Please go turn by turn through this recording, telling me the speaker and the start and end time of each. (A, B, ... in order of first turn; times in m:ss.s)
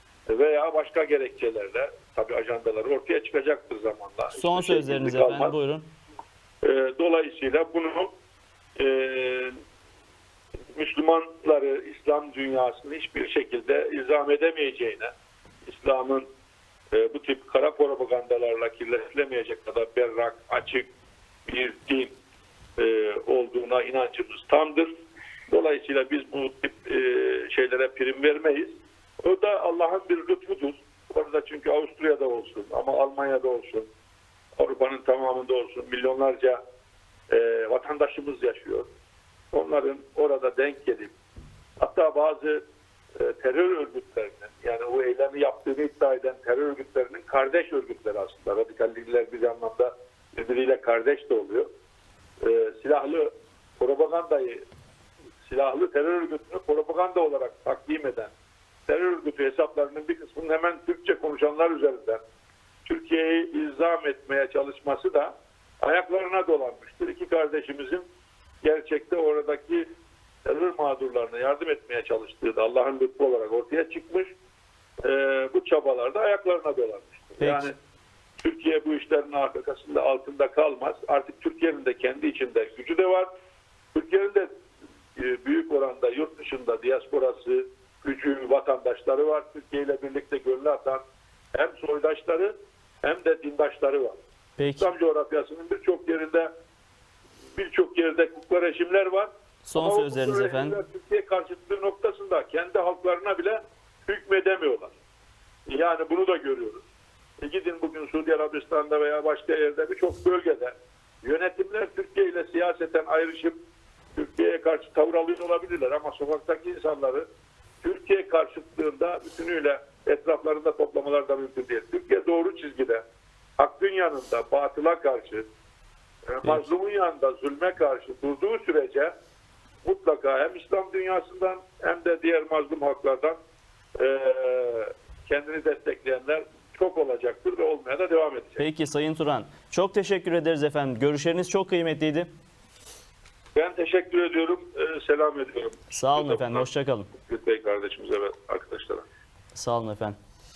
0:00.3-0:05.6 A
0:04.4-0:05.9 B
0:06.6-0:08.1 A
0:08.8-0:09.6 A
0:10.7-0:15.1 A
0:15.7-0:16.3 A
0:16.9-0:20.9 A
0:21.5-0:22.2 A
0:22.8-0:24.9 A
0:25.5-0:33.9 A
0:34.6-0:36.6 A
0:37.3-0:38.9 A
0:39.5-0:41.1 A
0:41.8-0:42.6 A
0:43.2-0:51.7 A
0:52.4-0:54.6 A
0:55.4-0:58.3 A
0:58.9-1:02.2 A
1:02.8-1:08.0 A
1:08.6-1:09.9 A
1:10.4-1:14.3 A
1:15.0-1:17.8 A
1:17.4-1:17.7 B
1:18.4-1:23.3 A
1:23.9-1:24.5 A
1:25.2-1:31.0 A
1:31.5-1:34.2 A
1:34.6-1:34.9 B
1:34.8-1:36.5 A
1:37.6-1:44.9 A
1:39.6-1:40.8 B
1:45.7-1:46.8 A
1:47.4-1:53.6 A
1:54.2-1:57.3 A
1:57.8-2:03.0 A
2:03.6-2:05.5 A
2:06.3-2:09.1 A
2:06.4-2:06.7 B
2:09.8-2:13.4 A
2:14.0-2:18.6 A
2:18.6-2:22.3 B
2:23.6-2:29.0 A
2:25.9-2:27.1 B
2:29.6-2:30.2 B